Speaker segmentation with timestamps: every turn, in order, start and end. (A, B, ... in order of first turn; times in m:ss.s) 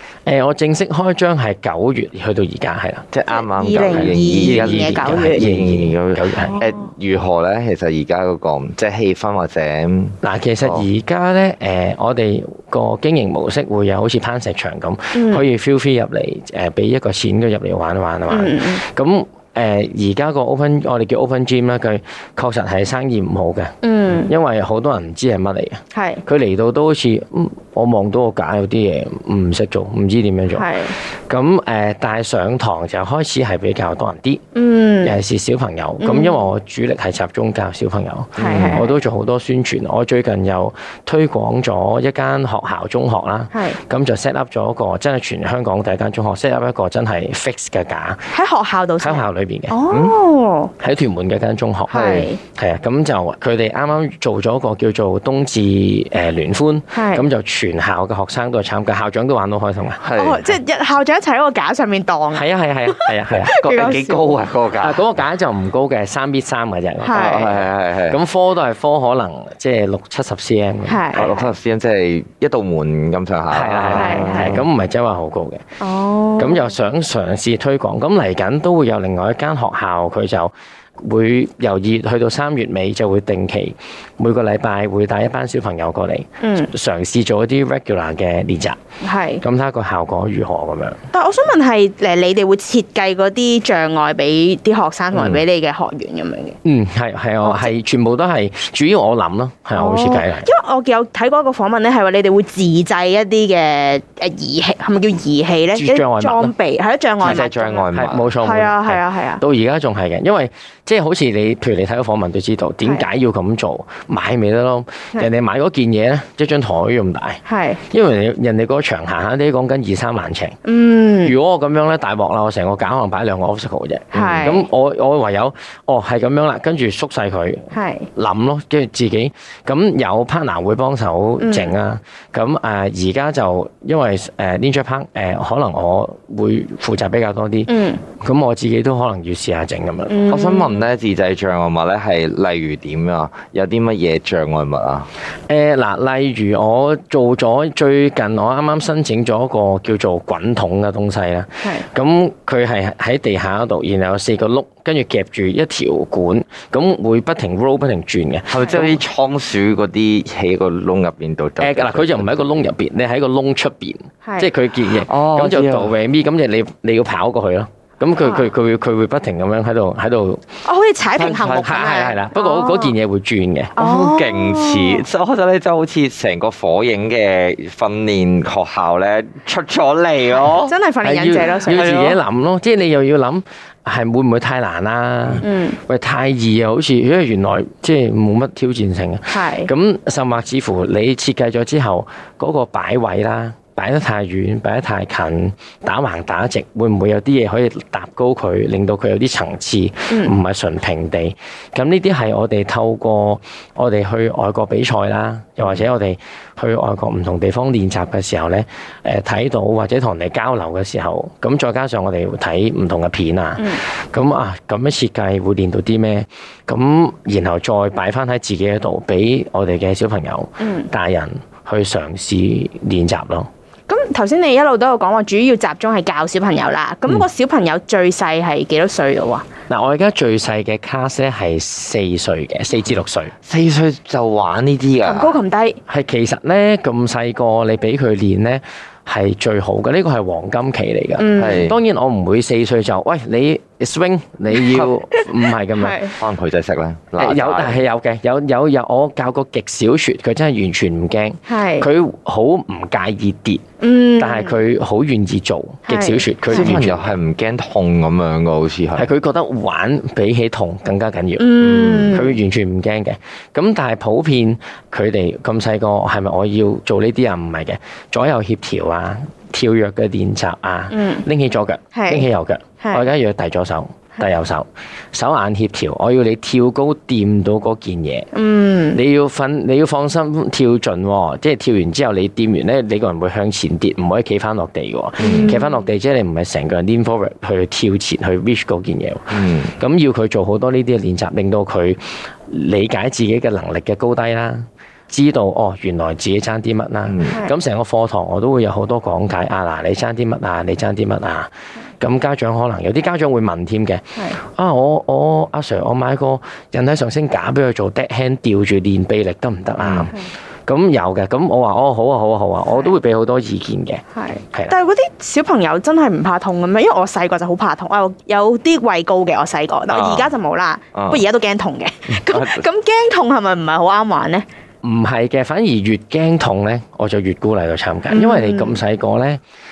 0:00.3-0:03.1 A
0:03.1-0:10.9 B
0:03.3-0:05.5 C
0:03.9-0:06.6 A
0:10.2-0:34.4 A
0:15.1-0:15.4 C
0:18.3-0:18.8 C
0:23.8-0:24.3 C
0:25.9-0:26.2 C
0:30.6-0:31.0 C
0:34.6-0:35.1 C
0:35.0-0:48.3 A
0:36.0-0:36.5 C
0:38.4-0:38.8 B
0:38.4-0:38.9 C
0:43.5-0:43.8 C
0:48.3-0:50.7 C
0:49.0-0:49.8 A
0:49.9-0:50.2 B
0:50.8-1:00.0 A
0:51.9-0:52.4 C
0:56.9-0:57.3 C
1:00.0-1:00.4 B
1:00.2-1:04.3 C
1:02.3-1:03.9 A
1:03.4-1:05.1 B
1:04.8-1:11.4 A
1:07.0-1:07.5 C
1:07.1-1:08.2 B
1:10.9-1:11.5 C
1:11.1-1:14.6 B
1:13.5-1:15.6 A
1:13.9-1:14.6 C
1:15.8-1:16.7 C
1:16.4-1:28.8 A
1:26.4-1:26.7 C
1:29.0-1:29.4 C
1:29.4-1:31.0 A
1:31.1-1:36.6 C
1:36.6-1:40.5 A
1:37.4-1:37.7 C
1:39.8-1:47.9 C
1:45.8-1:46.5 A
1:47.2-1:48.3 B
1:47.2-2:00.6 A
1:48.4-1:49.4 C
1:57.5-1:57.8 C
2:00.6-2:01.4 C
2:01.2-2:20.3 A
2:04.1-2:04.7 C
2:07.7-2:08.1 C
2:11.4-2:11.7 C
2:17.7-2:18.0 C
2:20.1-2:20.9 C
2:20.3-2:25.1 B
2:25.5-2:39.0 A
2:38.5-2:42.5 B
2:41.6-2:50.4 A
2:44.2-2:44.5 C
2:45.1-2:45.9 B
2:50.6-2:53.0 C
2:51.2-2:51.8 B
2:51.6-2:53.8 A
2:53.8-2:55.0 C
2:53.8-3:00.7 B
3:00.3-3:02.0 C
3:01.0-3:43.5 A
3:01.7-3:02.2 B
3:05.4-3:05.8 C
3:09.3-3:09.7 C
3:20.1-3:20.4 C
3:40.6-3:40.9 C
3:43.9-3:49.5 C
3:49.7-3:53.3 A
3:53.4-3:55.3 B
3:55.0-3:55.8 C
3:55.9-4:06.0 A
4:01.2-4:01.7 C
4:01.4-4:01.8 B
4:04.7-4:04.9 B
4:05.1-4:06.1 C
4:06.2-4:07.8 B
4:07.2-4:13.6 A
4:11.5-4:11.9 C
4:13.8-4:14.6 C
4:14.2-4:17.1 A
4:15.9-4:16.8 C
4:16.5-4:19.1 B
4:19.0-4:38.3 A
4:21.4-4:22.3 C
4:21.6-4:22.1 B
4:30.9-4:31.2 C
4:31.9-4:32.3 C
4:38.3-4:39.0 C
4:38.9-5:14.7 A
4:45.2-4:45.6 B
4:45.2-4:45.8 C
4:49.3-4:49.7 B
4:57.1-4:57.4 B
5:09.8-5:10.1 B
5:12.7-5:12.9 C
5:14.1-5:24.5 C
5:19.9-5:20.3 B
5:20.9-5:21.2 B
5:22.1-5:22.6 B
5:24.8-5:29.4 A
5:28.1-5:28.8 C